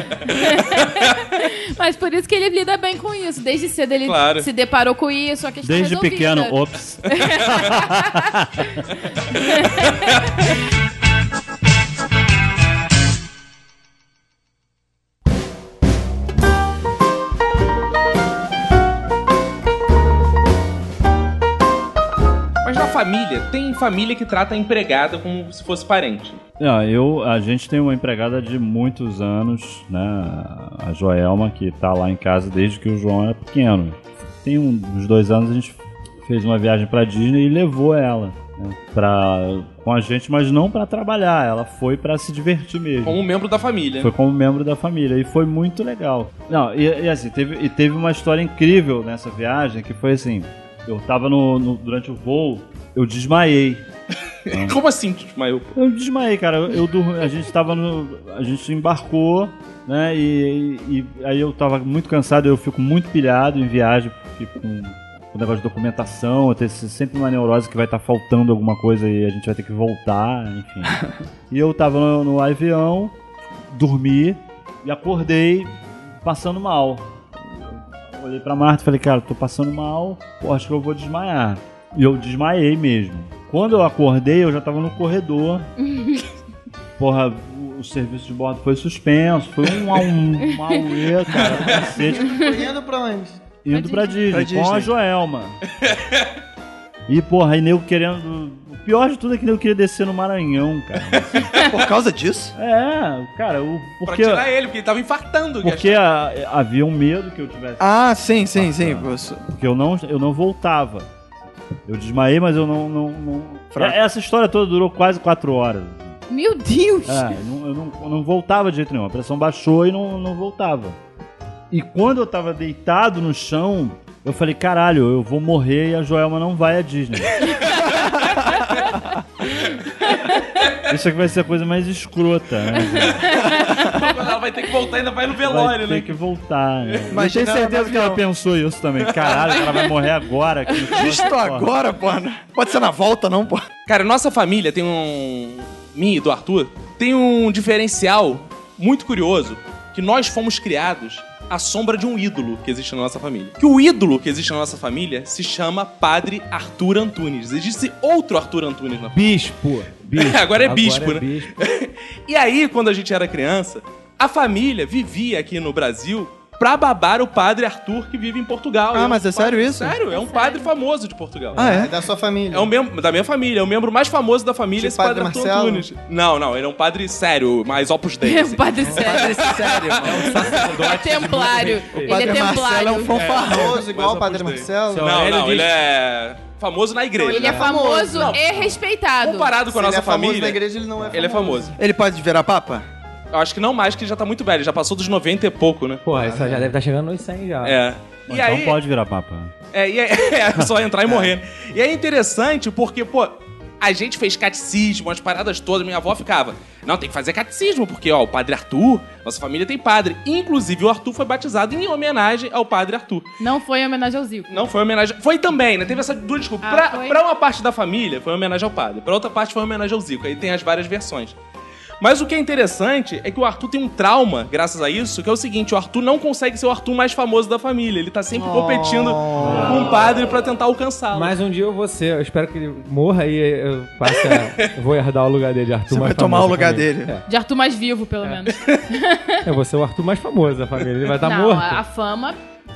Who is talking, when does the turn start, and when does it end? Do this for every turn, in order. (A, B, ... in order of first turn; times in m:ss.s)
0:00.2-0:06.5 A
0:04.0-0:04.5 B
0:05.6-0:08.8 C
0:07.1-0:08.2 A
0:09.4-0:10.1 A
0:22.6-0:26.4 B
0:26.6-0:43.2 C
0:43.0-0:44.1 B
0:44.0-0:53.8 C
0:54.5-0:55.7 B
0:54.5-0:54.8 C
0:55.7-1:11.0 C
1:11.5-1:13.1 C
1:13.7-1:25.7 C
1:25.8-1:26.2 A
1:27.0-1:32.4 C
1:31.6-1:33.4 D
1:33.6-1:35.6 C
1:33.7-1:34.2 A
1:34.3-1:34.9 E
1:35.8-1:36.3 B
1:37.1-1:41.5 C
1:41.5-1:42.5 E
1:42.6-1:44.5 C
1:44.0-1:46.0 B
1:45.6-1:51.1 C
1:47.8-1:49.4 E
1:51.8-1:56.2 C
1:56.3-1:57.3 A
1:57.0-2:01.0 C
2:01.7-2:07.5 C
2:10.9-2:13.4 C
2:13.6-2:16.2 B
2:15.4-2:21.7 C
2:17.1-2:18.2 E
2:19.1-2:19.6 B
2:20.9-2:23.7 E
2:23.9-2:39.2 B
2:39.1-2:41.6 F
2:40.1-2:51.6 B
2:48.9-2:50.0 E
2:50.1-2:50.7 A
2:51.5-2:51.9 E
2:51.6-2:52.7 D
2:52.5-3:00.5 B
2:54.8-2:55.8 D
2:58.2-2:59.7 A
2:58.9-3:00.4 E
3:00.0-3:02.5 F
3:00.8-3:03.2 A
3:02.0-3:03.8 E
3:03.1-3:08.4 B
3:03.4-3:05.2 D
3:04.9-3:05.7 F
3:07.2-3:08.4 D
3:07.2-3:09.5 A
3:09.2-3:11.7 B
3:09.6-3:11.8 D
3:11.8-3:12.8 E
3:13.3-3:16.0 B
3:16.0-3:17.8 F
3:16.2-3:16.6 D
3:17.6-3:18.8 B
3:18.3-3:19.5 C
3:19.7-3:33.3 B
3:33.4-3:34.6 A
3:34.5-3:41.4 B
3:36.6-3:37.2 A
3:42.0-3:51.3 B
3:48.3-3:49.9 D
3:49.4-3:49.9 C
3:51.1-3:57.2 F
3:54.1-3:54.5 B
3:55.9-3:57.1 E
3:57.3-3:59.4 A
3:59.4-4:01.8 F
4:01.2-4:02.4 A